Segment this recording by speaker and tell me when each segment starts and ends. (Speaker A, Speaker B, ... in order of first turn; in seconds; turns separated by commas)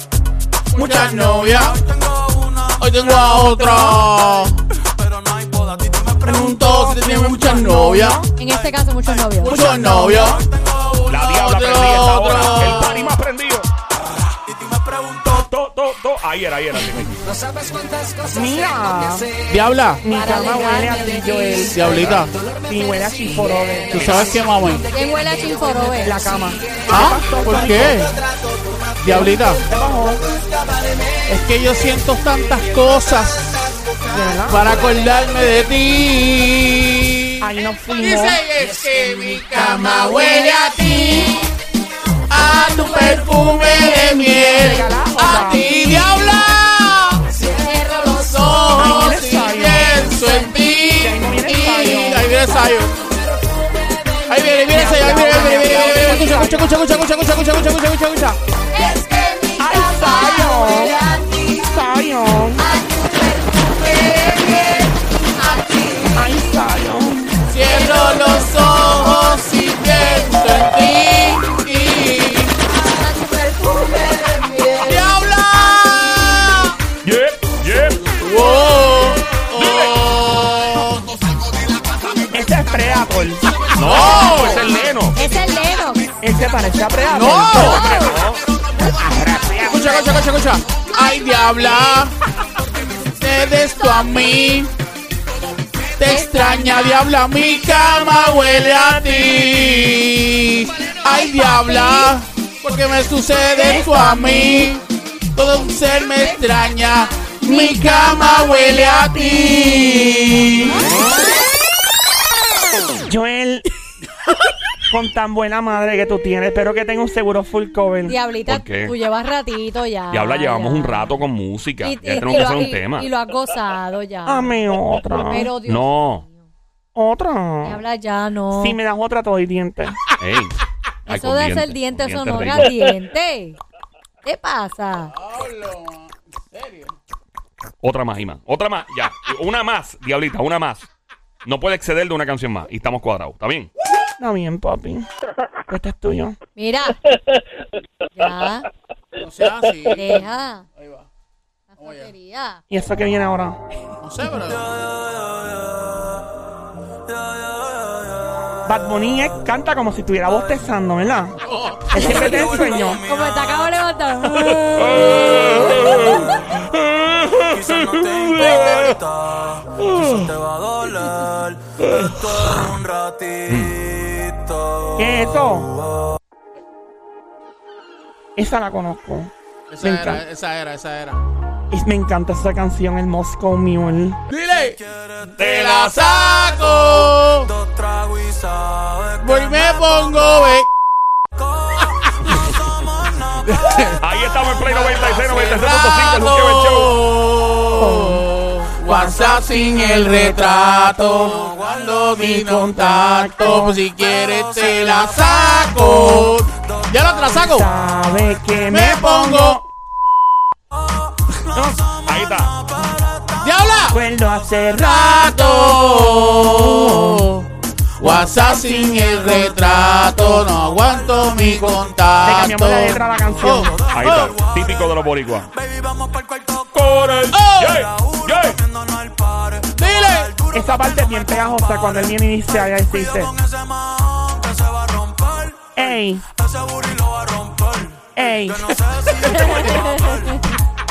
Speaker A: 0.7-1.8, Speaker B: 0.8-1.5, Speaker C: 1.0-6.9, Speaker A: 2.8-4.6, Speaker B: 3.0-4.0, Speaker A: 6.2-8.2, Speaker B: 6.2-8.3, Speaker D: 8.4-9.8, Speaker C: 8.4-13.0, Speaker A: 9.4-10.4, Speaker B: 9.5-10.4, Speaker E: 11.1-13.7, Speaker A: 11.2-13.2, Speaker C: 14.3-15.5, Speaker E: 15.3-17.2, Speaker B: 18.3-19.3, Speaker A: 19.5-20.0, Speaker B: 20.0-24.4, Speaker D: 20.1-21.9, Speaker A: 21.6-22.3, Speaker A: 23.9-24.9, Speaker D: 24.9-26.4, Speaker B: 26.0-28.1, Speaker A: 26.9-28.1, Speaker A: 29.0-29.6, Speaker B: 29.1-30.2, Speaker A: 31.2-33.6, Speaker B: 34.1-34.8, Speaker A: 34.5-41.4, Speaker B: 37.4-38.4, Speaker D: 39.5-41.4, Speaker A: 42.3-47.4, Speaker D: 42.6-44.9, Speaker B: 44.3-46.0, Speaker D: 47.3-49.2, Speaker A: 48.0-53.1, Speaker B: 48.7-50.1, Speaker D: 50.1-50.6, Speaker B: 50.8-52.3, Speaker D: 53.0-56.6, Speaker A: 54.3-58.4, Speaker B: 54.7-56.8, Speaker D: 58.7-61.7, Speaker B: 59.6-61.0, Speaker B: 61.6-62.6, Speaker D: 62.6-66.4, Speaker B: 66.1-67.4, Speaker A: 67.5-72.5, Speaker D: 67.6-70.7, Speaker D: 72.6-76.5, Speaker A: 74.8-76.8, Speaker E: 77.0-78.2, Speaker A: 78.2-81.2, Speaker E: 79.5-80.1, Speaker B: 82.3-83.6, Speaker E: 83.7-85.2, Speaker A: 83.8-84.7, Speaker D: 85.1-86.1, Speaker B: 86.2-88.0, Speaker A: 87.1-87.9, Speaker D: 87.5-88.2, Speaker E: 87.6-88.4, Speaker B: 88.8-90.2, Speaker A: 89.6-92.1, Speaker A: 93.2-94.7, Speaker A: 96.0-104.8, Speaker D: 96.0-97.1, Speaker B: 98.9-99.5, Speaker D: 101.1-102.1, Speaker D: 103.6-104.4, Speaker A: 105.3-110.8, Speaker B: 107.5-109.3, Speaker B: 113.0-113.7, Speaker B: 114.9-118.1, Speaker D: 118.1-121.2, Speaker E: 118.5-118.9, Speaker E: 120.1-123.1, Speaker D: 121.8-126.3, Speaker B: 124.2-125.5, Speaker E: 125.6-126.2, Speaker B: 126.9-127.8, Speaker D: 127.6-128.8, Speaker B: 128.5-130.0, Speaker E: 130.2-130.6, Speaker E: 131.1-132.8, Speaker D: 131.1-133.6, Speaker D: 134.2-135.1, Speaker A: 135.1-136.9, Speaker E: 137.8-140.8, Speaker E: 141.4-143.7, Speaker B: 144.2-145.1, Speaker B: 145.7-146.4, Speaker D: 146.6-147.0, Speaker D: 148.1-148.7, Speaker A: 149.2-150.2, Speaker D: 149.9-150.7, Speaker A: 150.8-151.1, Speaker D: 151.7-152.6, Speaker A: 151.8-152.1, Speaker B: 152.7-153.6, Speaker A: 154.0-154.7, Speaker C: 154.5-156.0, Speaker C: 157.1-158.1, Speaker B: 158.7-161.4, Speaker A: 161.4-162.4, Speaker B: 161.9-163.0, Speaker C: 162.0-163.7, Speaker D: 162.0-162.5, Speaker D: 163.0-166.4, Speaker E: 164.3-168.9, Speaker C: 167.4-176.2, Speaker E: 169.8-170.3, Speaker E: 171.9-172.7, Speaker E: 173.5-173.8, Speaker B: 175.0-175.7, Speaker B: 178.3-180.2, Speaker A: 179.7-181.2, Speaker B: 181.7-184.2, Speaker A: 184.3-184.8, Speaker C: 184.5-190.6, Speaker A: 185.3-187.5, Speaker E: 185.4-186.0, Speaker A: 189.2-190.7, Speaker C: 191.4-195.9, Speaker A: 191.9-192.3, Speaker A: 193.4-194.0, Speaker E: 194.0-197.0, Speaker A: 195.1-207.7, Speaker B: 197.8-198.2, Speaker B: 198.8-201.1, Speaker C: 201.1-202.2, Speaker B: 202.2-203.7, Speaker C: 203.9-208.3, Speaker B: 207.5-209.6, Speaker A: 208.7-209.6, Speaker C: 210.9-214.2, Speaker B: 211.5-211.9, Speaker E: 212.0-212.5, Speaker A: 213.4-214.0, Speaker B: 213.9-217.3, Speaker A: 214.8-217.5, Speaker A: 218.0-224.3, Speaker B: 218.0-220.4, Speaker C: 220.3-240.6, Speaker B: 222.2-223.8, Speaker E: 223.9-225.5, Speaker E: 226.7-228.6, Speaker A: 227.3-227.8, Speaker A: 229.7-230.3, Speaker B: 230.5-233.3, Speaker B: 235.8-236.2, Speaker B: 238.1-238.8, Speaker D: 239.4-240.4